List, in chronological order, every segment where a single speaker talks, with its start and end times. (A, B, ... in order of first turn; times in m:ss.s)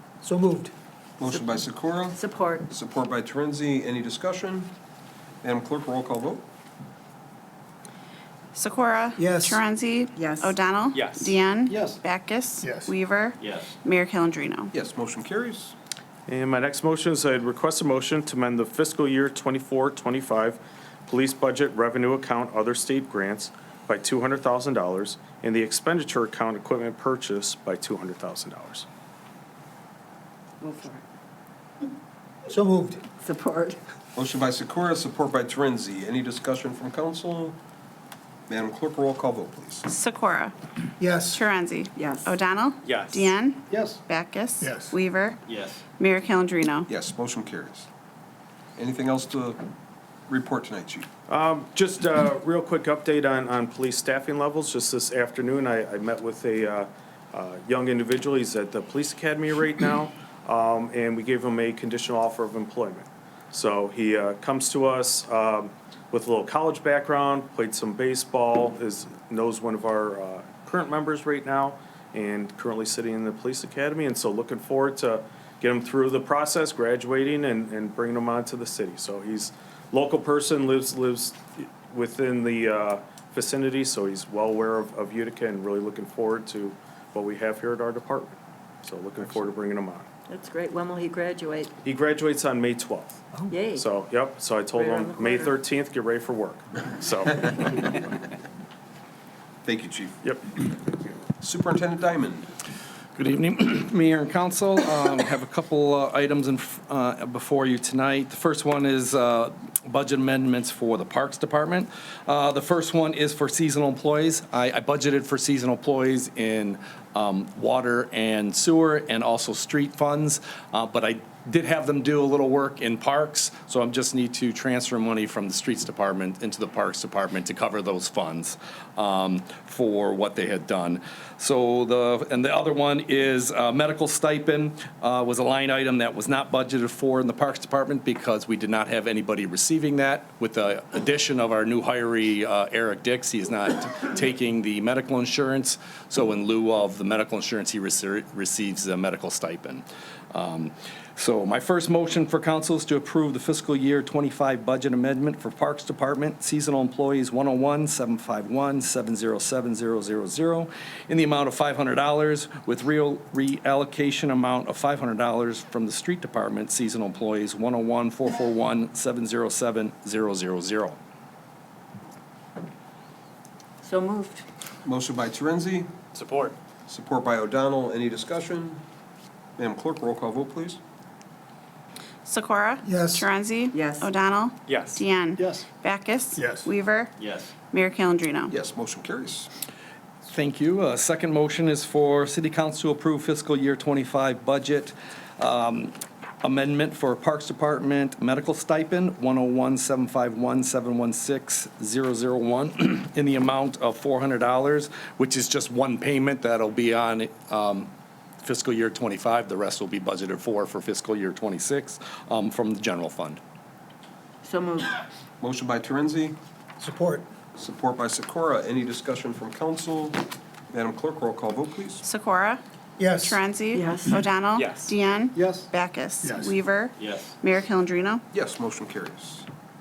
0:00.2-0:00.7 A
0:01.2-0:04.7 B
0:02.1-0:02.7 C
0:05.4-0:06.4 B
0:08.5-0:14.7 D
0:09.2-0:09.6 A
0:10.2-0:10.6 C
0:10.9-0:11.3 E
0:11.7-0:12.0 A
0:12.6-0:12.9 A
0:14.7-0:15.7 B
0:16.3-0:28.8 F
0:30.6-0:31.0 C
0:32.5-0:33.0 A
0:33.2-0:33.8 C
0:34.2-0:37.6 B
0:38.5-0:39.9 B
0:39.9-0:40.5 D
0:41.0-0:41.4 A
0:41.3-0:45.4 D
0:42.0-0:42.4 C
0:42.8-0:43.2 E
0:43.7-0:44.0 A
0:44.6-0:44.9 A
0:46.0-0:46.9 D
0:46.9-0:47.9 B
0:48.8-0:49.6 B
0:50.3-0:51.1 B
0:51.3-1:30.1 F
1:30.3-1:31.7 C
1:31.8-1:38.0 F
1:33.5-1:33.8 C
1:34.7-1:35.6 C
1:39.6-1:40.2 B
1:41.4-1:42.5 B
1:43.2-2:51.0 G
2:53.8-2:54.4 C
2:54.8-2:55.9 B
2:56.1-2:56.5 E
2:56.9-2:58.8 B
2:59.6-3:00.8 B
3:02.2-3:07.1 D
3:02.8-3:03.2 A
3:03.7-3:04.1 C
3:04.7-3:05.0 E
3:05.4-3:05.6 A
3:06.4-3:06.7 A
3:07.7-3:08.5 D
3:08.5-3:09.5 B
3:10.2-3:27.9 G
3:28.4-3:33.4 G
3:34.4-3:35.0 C
3:35.4-3:36.4 B
3:36.8-3:37.2 A
3:37.6-3:42.0 B
3:42.0-3:42.6 D
3:43.0-3:43.4 A
3:43.2-3:48.2 D
3:43.7-3:44.3 C
3:44.6-3:44.9 E
3:45.3-3:45.7 A
3:46.2-3:46.5 A
3:48.3-3:49.5 B